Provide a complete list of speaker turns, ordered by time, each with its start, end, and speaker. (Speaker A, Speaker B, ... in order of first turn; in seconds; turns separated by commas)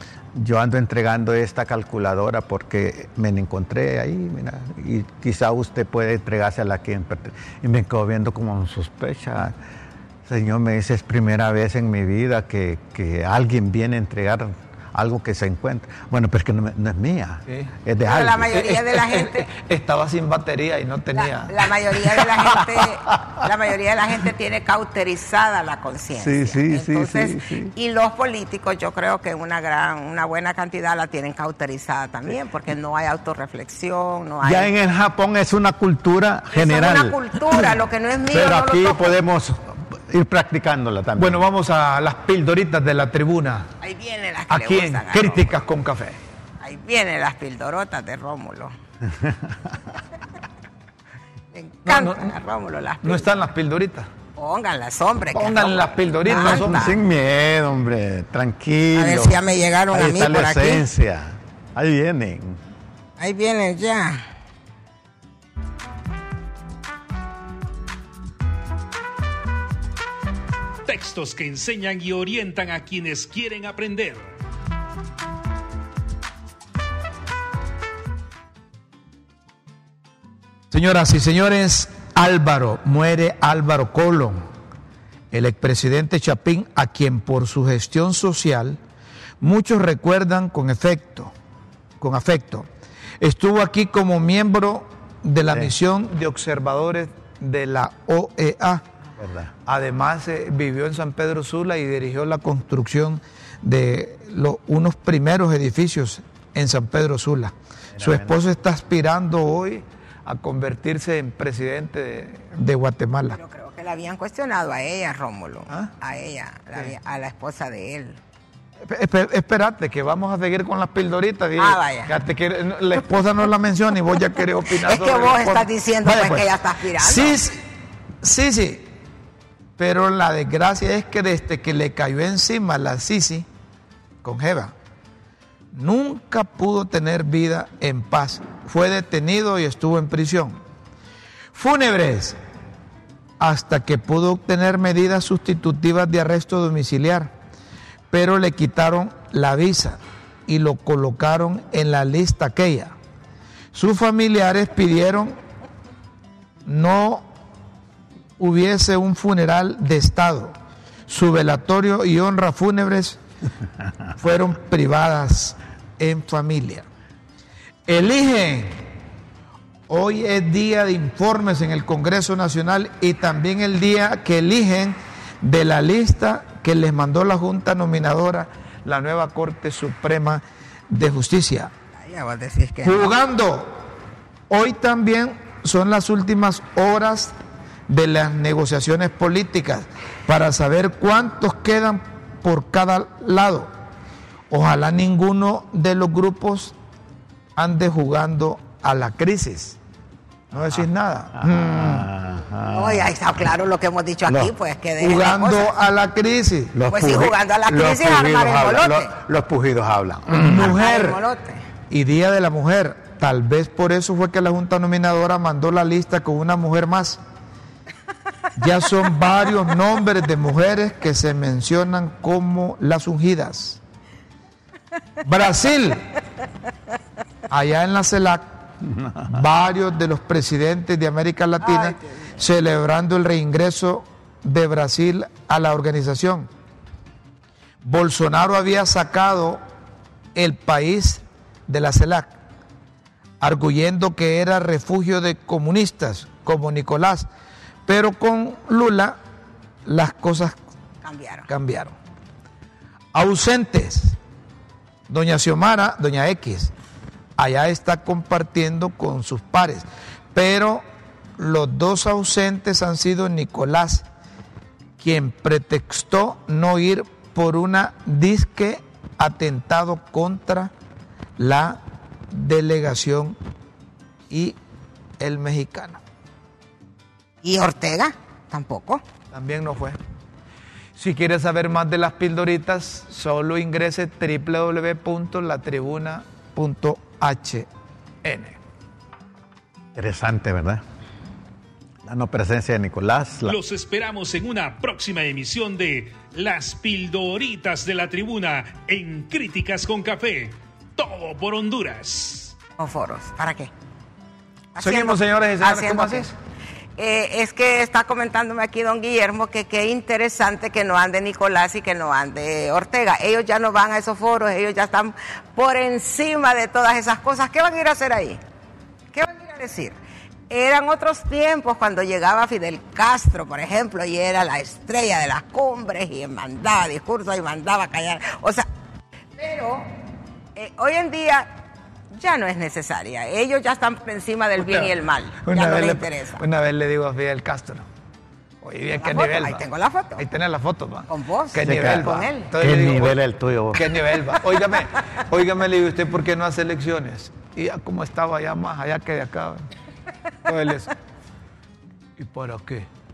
Speaker A: 0.3-9.6, Speaker A: 10.2-18.5, Speaker B: 18.0-19.5, Speaker C: 18.4-22.7, Speaker B: 21.1-34.7, Speaker A: 26.2-27.7, Speaker A: 34.4-37.8, Speaker B: 36.5-39.2, Speaker A: 38.3-41.4, Speaker C: 41.2-43.7, Speaker B: 43.8-45.5, Speaker C: 44.5-46.2, Speaker B: 46.6-48.7, Speaker A: 49.1-49.7, Speaker B: 51.5-53.3, Speaker C: 51.9-52.4, Speaker C: 53.0-54.1, Speaker B: 54.4-57.0, Speaker C: 55.3-57.0, Speaker A: 56.4-59.4, Speaker B: 58.9-60.8, Speaker A: 59.9-62.6, Speaker B: 63.2-64.3, Speaker D: 70.8-74.3, Speaker C: 80.7-84.5, Speaker C: 85.3-88.8, Speaker C: 89.4-91.3, Speaker C: 92.0-92.7, Speaker C: 93.2-98.8, Speaker A: 99.2-99.5, Speaker C: 99.7-113.4, Speaker A: 107.9-108.4, Speaker B: 113.3-118.2, Speaker C: 118.8-127.6, Speaker B: 121.6-122.1, Speaker B: 124.8-127.4, Speaker C: 128.2-128.9, Speaker C: 129.8-133.4, Speaker C: 134.2-134.7, Speaker C: 135.7-140.6, Speaker C: 141.5-142.4, Speaker C: 143.4-147.3, Speaker C: 148.1-152.9, Speaker C: 153.7-155.4, Speaker C: 156.7-157.2, Speaker C: 158.4-160.5, Speaker C: 161.1-163.2, Speaker C: 164.2-166.8, Speaker C: 167.9-168.9, Speaker C: 169.9-181.7, Speaker B: 182.0-183.1, Speaker C: 182.8-183.7, Speaker C: 184.5-187.3, Speaker C: 187.9-193.7, Speaker C: 194.5-196.7, Speaker C: 197.6-199.8, Speaker C: 200.5-202.1, Speaker A: 200.5-200.8, Speaker A: 201.4-203.1, Speaker B: 202.7-205.8, Speaker A: 204.3-204.5, Speaker C: 205.0-206.8, Speaker A: 206.7-210.8, Speaker B: 206.9-209.1, Speaker C: 210.3-211.2, Speaker B: 210.6-211.6, Speaker C: 211.9-217.2, Speaker C: 218.6-223.8, Speaker C: 225.2-226.0, Speaker C: 227.5-228.4, Speaker A: 228.8-229.4, Speaker C: 229.3-236.5, Speaker B: 231.6-232.4, Speaker C: 237.8-239.6, Speaker C: 240.3-242.3, Speaker C: 243.4-247.3, Speaker C: 247.9-249.2, Speaker C: 249.8-250.6, Speaker B: 251.0-251.5, Speaker C: 251.5-251.9, Speaker C: 253.1-254.2, Speaker C: 255.1-256.7, Speaker C: 257.4-260.8, Speaker C: 261.4-264.1, Speaker C: 265.0-270.7, Speaker C: 271.4-271.8, Speaker C: 272.3-273.4, Speaker C: 274.3-274.6, Speaker C: 275.2-276.0, Speaker B: 277.4-279.0, Speaker C: 279.3-280.0, Speaker C: 281.0-287.7, Speaker C: 288.2-288.6, Speaker A: 289.9-290.8, Speaker A: 292.0-293.6, Speaker D: 293.4-302.5, Speaker B: 302.8-303.7, Speaker B: 304.7-306.3, Speaker C: 304.8-306.3, Speaker B: 307.0-318.4, Speaker B: 319.1-319.9, Speaker B: 320.5-328.6, Speaker B: 329.4-329.9, Speaker B: 330.6-331.5, Speaker B: 332.1-336.4, Speaker C: 334.6-337.8, Speaker C: 338.6-339.6, Speaker B: 338.9-340.2, Speaker C: 340.2-343.2, Speaker B: 341.1-342.5, Speaker A: 341.6-344.0, Speaker C: 343.7-349.7, Speaker C: 350.4-350.9, Speaker C: 352.2-352.9